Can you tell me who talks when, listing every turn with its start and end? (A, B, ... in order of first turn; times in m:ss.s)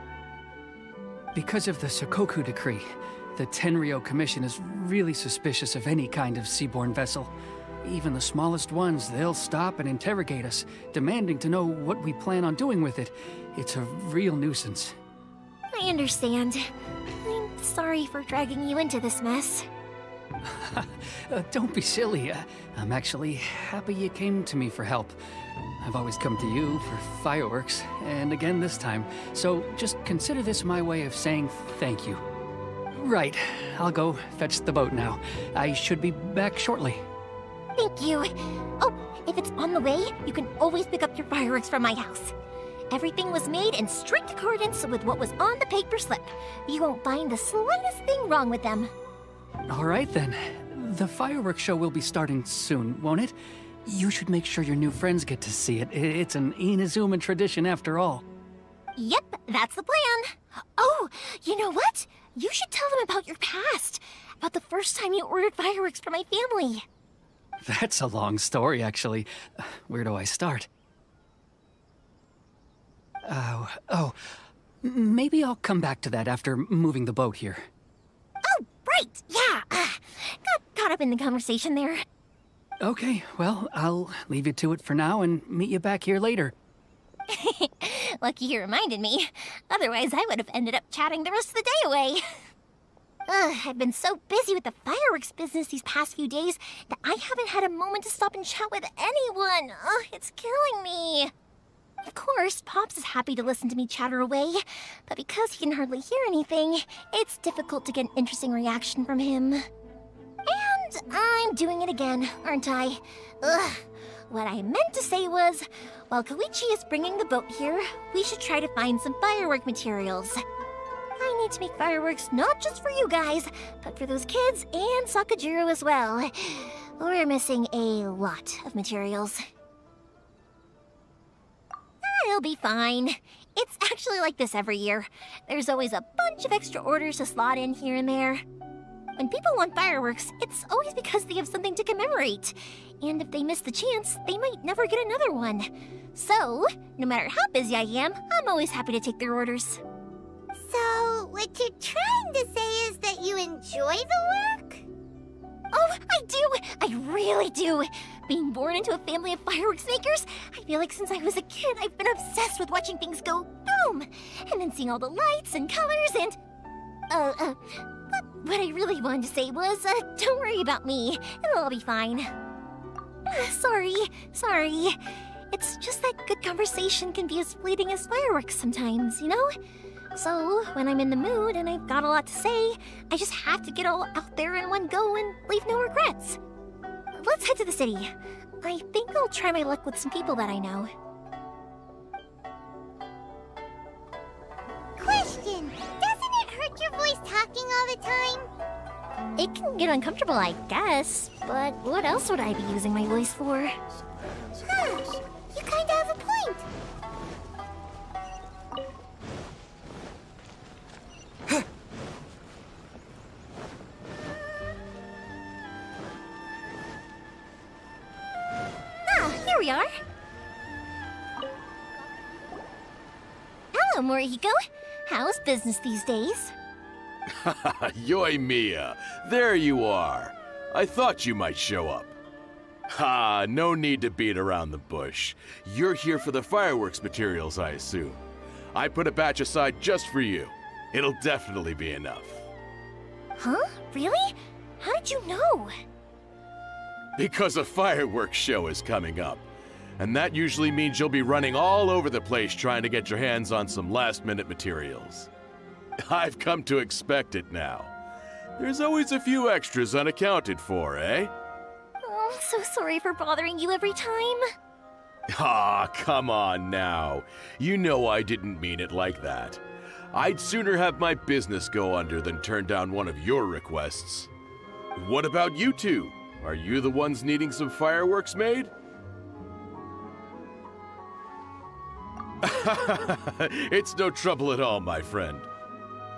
0:01.4-0:07.3 A
0:07.8-0:15.0 A
0:15.7-0:19.7 B
0:20.4-0:25.2 A
0:25.8-0:32.2 A
0:32.9-0:37.0 A
0:37.8-0:42.3 B
0:42.9-0:48.9 B
0:49.7-0:58.2 A
0:59.0-1:06.8 B
1:07.6-1:10.7 A
1:13.2-1:14.2 A
1:14.8-1:17.7 A
1:18.4-1:22.0 B
1:22.8-1:26.6 A
1:27.3-1:32.2 B
1:33.3-1:41.3 B
1:42.0-1:49.6 B
1:50.5-2:00.4 B
2:01.2-2:09.4 B
2:12.0-2:18.4 B
2:19.2-2:29.8 B
2:30.6-2:34.8 C
2:35.7-2:46.4 B
2:47.1-2:52.3 B
2:53.3-2:55.0 B
2:55.5-2:59.5 B
3:00.2-3:06.4 B
3:07.2-3:10.9 B
3:15.0-3:18.5 C
3:19.4-3:23.8 B
3:24.6-3:26.7 C
3:39.1-3:39.9 B
3:43.7-3:46.6 B
3:47.3-3:52.2 D
3:52.9-3:58.2 D
3:58.7-4:02.4 D
4:03.4-4:05.7 B
4:07.2-4:09.4 D
4:10.0-4:15.3 D
4:16.0-4:17.9 D
4:18.6-4:21.3 D
4:22.0-4:24.4 B
4:25.3-4:29.6 D
4:30.1-4:34.3 D
4:35.0-4:38.7 D
4:42.4-4:45.5 D